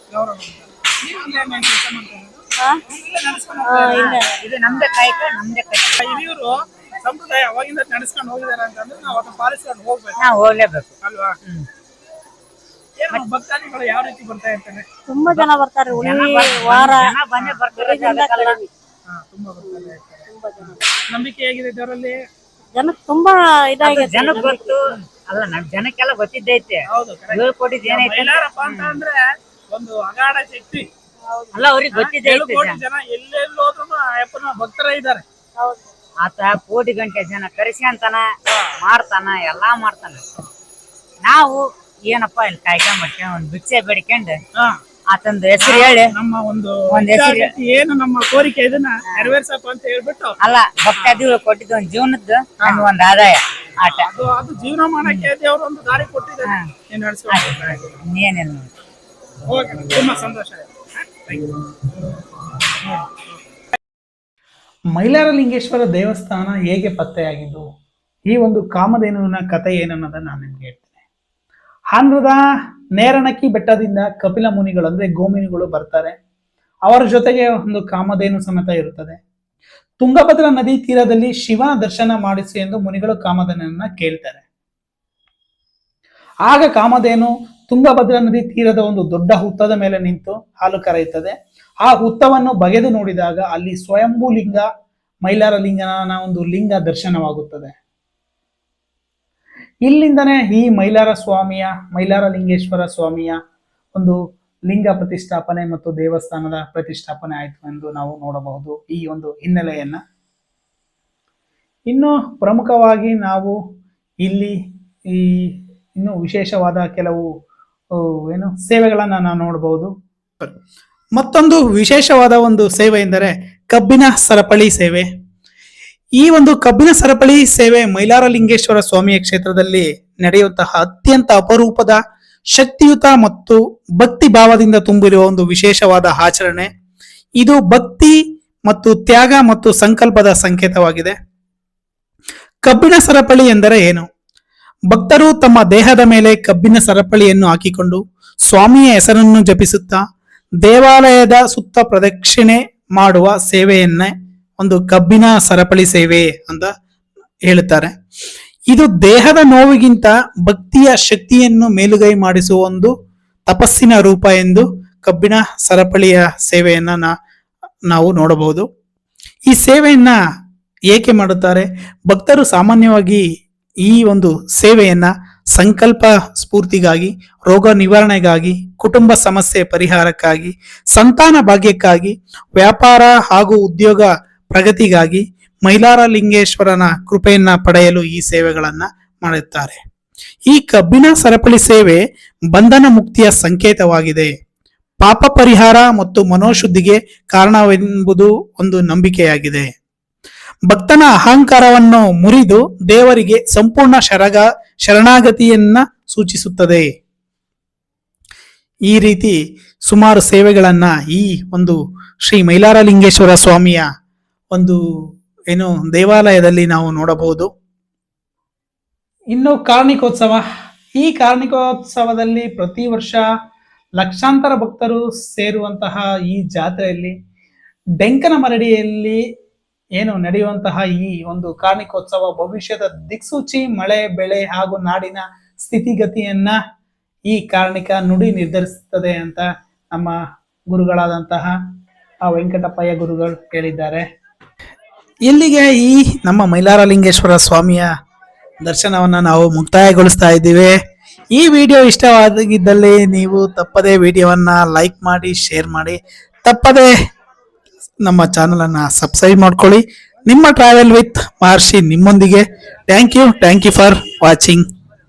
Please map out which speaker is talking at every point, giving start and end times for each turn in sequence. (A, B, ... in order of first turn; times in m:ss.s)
0:00.1-0:04.1 A
0:03.6-0:04.3 B
0:03.9-0:06.2 C
0:06.0-0:10.2 A
0:10.2-0:10.9 C
0:11.0-0:11.3 A
0:13.0-0:14.8 A
0:15.1-0:17.2 B
0:15.3-0:18.6 C
0:17.7-0:18.7 B
0:19.1-0:22.2 A
0:19.6-0:20.8 B
0:22.7-0:24.7 B
0:23.8-0:29.0 C
0:26.9-0:30.8 A
0:31.3-0:31.6 B
0:31.5-0:32.8 C
0:31.9-0:35.2 A
0:35.6-0:35.9 B
0:36.2-0:38.2 C
0:38.8-0:40.2 C
0:41.2-0:44.4 C
0:45.1-0:46.1 C
0:45.6-0:50.3 A
0:46.9-0:47.5 C
0:50.4-0:54.1 C
0:52.6-0:52.8 A
0:54.0-0:57.9 A
0:55.0-0:55.3 C
0:57.3-0:58.7 C
0:59.5-1:01.5 A
1:02.8-1:03.2 A
1:04.9-1:07.6 A
1:08.3-1:11.0 A
1:11.9-1:12.4 A
1:13.0-1:16.1 A
1:16.9-1:19.2 A
1:20.0-1:24.4 A
1:26.5-1:31.3 A
1:31.8-1:34.7 A
1:35.2-1:37.7 A
1:39.8-1:43.4 A
1:44.7-1:50.0 A
1:51.9-1:53.5 A
1:54.2-1:54.5 A
1:55.1-1:57.2 A
1:58.3-2:00.5 A
2:01.2-2:05.0 A
2:06.2-2:12.0 A
2:12.5-2:16.7 A
2:17.4-2:18.1 A
2:18.7-2:21.2 A
2:22.6-2:24.0 A
2:24.9-2:30.0 A
2:30.6-2:36.7 A
2:37.5-2:37.9 A
2:38.7-2:42.9 A
2:43.5-2:47.1 A
2:47.9-2:48.6 A
2:49.5-2:50.2 A
2:50.9-2:53.2 A
2:53.8-3:09.8 A
3:10.5-3:12.0 A
3:12.5-3:14.3 A
3:15.0-3:19.7 A
3:20.7-3:26.8 A
3:28.9-3:29.4 A
3:29.9-3:33.8 A
3:35.5-3:37.5 A
3:39.3-3:40.4 A
3:41.0-3:43.2 A
3:44.0-3:47.1 A
3:48.0-3:49.2 A
3:50.0-3:56.6 A
3:57.3-4:00.1 A
4:00.7-4:01.5 A
4:02.2-4:04.0 A
4:05.3-4:07.9 A
4:08.6-4:10.7 A
4:11.3-4:16.9 A
4:18.0-4:24.6 A